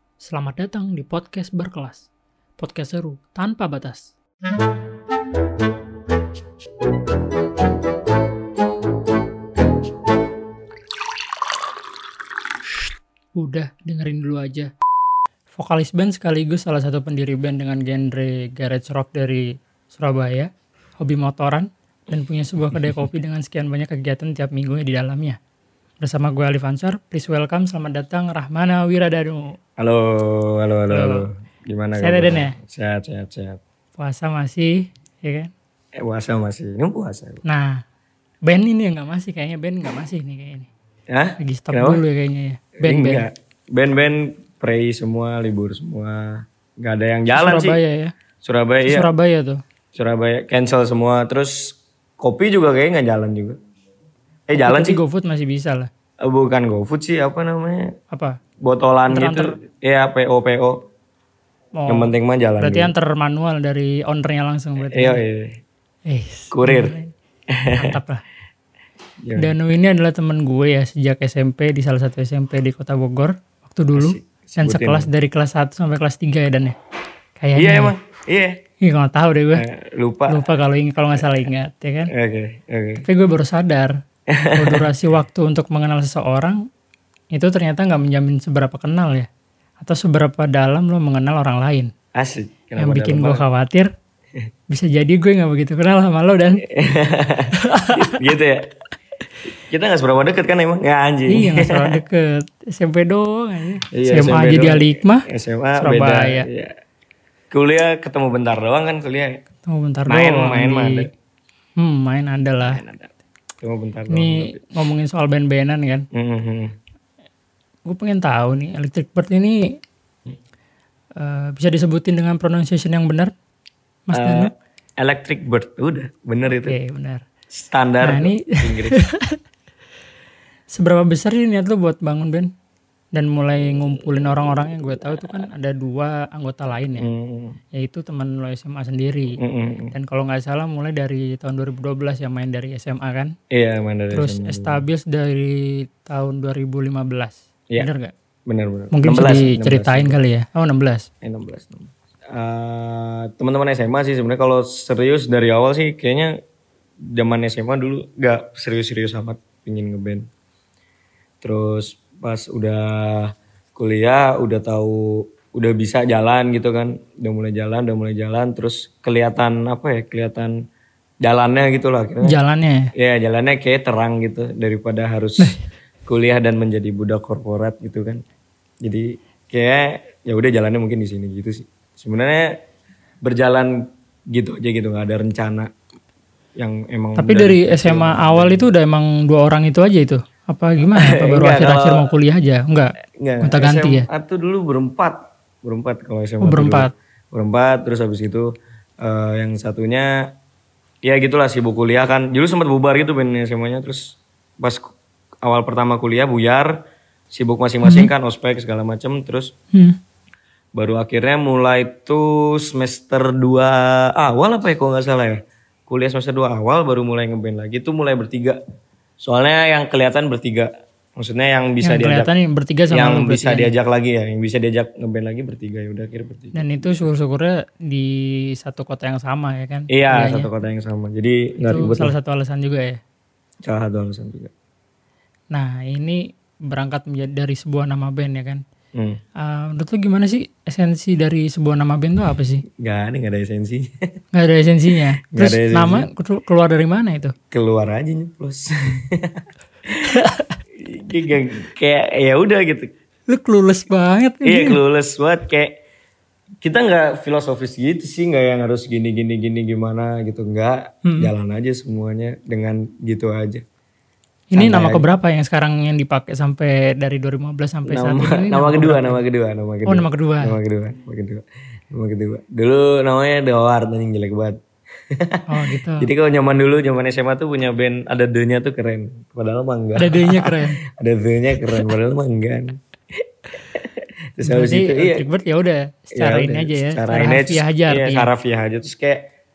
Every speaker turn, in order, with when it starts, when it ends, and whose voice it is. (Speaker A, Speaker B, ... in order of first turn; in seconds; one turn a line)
Speaker A: 0.2-2.1
Speaker A: 2.6-4.1
Speaker A: 13.4-14.7
Speaker A: 15.5-25.4
Speaker A: 26.0-29.6
Speaker B: 29.8-33.6
Speaker A: 30.9-31.3
Speaker A: 32.0-32.6
Speaker A: 34.0-35.5
Speaker B: 36.0-37.4
Speaker A: 37.4-37.8
Speaker A: 38.5-40.7
Speaker B: 41.1-42.0
Speaker A: 41.4-43.2
Speaker B: 42.8-47.8
Speaker A: 47.3-48.1
Speaker B: 48.4-49.1
Speaker A: 48.8-49.6
Speaker B: 49.9-53.6
Speaker B: 54.5-55.0
Speaker A: 54.5-55.9
Speaker B: 56.2-57.9
Speaker A: 58.1-58.4
Speaker B: 58.6-60.8
Speaker A: 59.1-59.5
Speaker A: 61.8-65.2
Speaker B: 61.9-62.9
Speaker B: 64.8-65.6
Speaker A: 66.1-67.1
Speaker B: 66.5-66.9
Speaker B: 67.5-68.0
Speaker A: 67.8-68.2
Speaker B: 69.2-69.5
Speaker A: 69.4-76.8
Speaker B: 73.9-75.1
Speaker A: 77.4-77.9
Speaker B: 77.5-78.6
Speaker A: 78.8-79.7
Speaker B: 79.5-80.5
Speaker A: 80.3-82.1
Speaker B: 82.1-83.0
Speaker A: 83.0-84.0
Speaker B: 84.3-84.9
Speaker A: 84.5-86.6
Speaker A: 87.3-89.3
Speaker A: 89.8-91.9
Speaker B: 92.1-93.4
Speaker A: 92.8-93.9
Speaker A: 94.7-96.6
Speaker B: 96.6-98.7
Speaker A: 97.5-98.3
Speaker B: 99.7-102.0
Speaker A: 101.3-105.2
Speaker B: 103.9-106.7
Speaker A: 105.8-106.5
Speaker B: 107.5-109.4
Speaker A: 109.7-111.1
Speaker B: 110.1-111.1
Speaker A: 111.8-112.8
Speaker B: 112.7-114.6
Speaker A: 114.1-116.1
Speaker B: 116.1-116.7
Speaker A: 117.9-119.7
Speaker A: 121.2-123.3
Speaker A: 124.1-124.5
Speaker B: 124.1-126.8
Speaker A: 126.6-127.2
Speaker B: 127.5-129.0
Speaker A: 128.0-129.4
Speaker A: 130.7-132.5
Speaker A: 133.1-137.1
Speaker B: 137.0-137.6
Speaker A: 137.7-139.4
Speaker B: 139.4-139.9
Speaker A: 139.9-143.3
Speaker B: 143.5-144.8
Speaker A: 144.1-148.1
Speaker B: 148.5-150.2
Speaker A: 148.9-151.1
Speaker B: 151.2-156.4
Speaker B: 157.1-160.3
Speaker B: 161.4-170.6
Speaker B: 171.2-172.4
Speaker A: 172.2-172.9
Speaker B: 172.9-178.2
Speaker B: 178.8-182.5
Speaker B: 183.2-183.7
Speaker B: 184.3-185.7
Speaker B: 186.6-188.7
Speaker A: 187.2-194.1
Speaker B: 190.9-192.1
Speaker B: 193.1-200.2
Speaker A: 196.4-196.9
Speaker B: 201.0-206.8
Speaker B: 207.3-209.5
Speaker A: 207.8-208.1
Speaker B: 210.7-218.6
Speaker B: 219.2-222.3
Speaker A: 221.8-223.7
Speaker B: 222.9-227.0
Speaker A: 226.5-230.5
Speaker B: 229.9-232.1
Speaker A: 231.6-233.0
Speaker B: 233.6-234.5
Speaker A: 235.5-238.6
Speaker A: 239.4-242.6
Speaker B: 242.7-244.1
Speaker A: 244.3-247.3
Speaker B: 245.3-246.1
Speaker B: 247.5-250.2
Speaker A: 250.0-250.5
Speaker B: 250.8-252.9
Speaker A: 253.3-254.8
Speaker B: 254.4-255.8
Speaker B: 256.6-263.6
Speaker A: 261.0-261.3
Speaker A: 264.5-269.2
Speaker B: 264.6-265.1
Speaker B: 267.9-274.6
Speaker A: 269.9-270.6
Speaker B: 275.1-285.2
Speaker A: 275.5-276.1
Speaker A: 279.9-280.8
Speaker A: 284.4-288.3
Speaker B: 286.1-289.3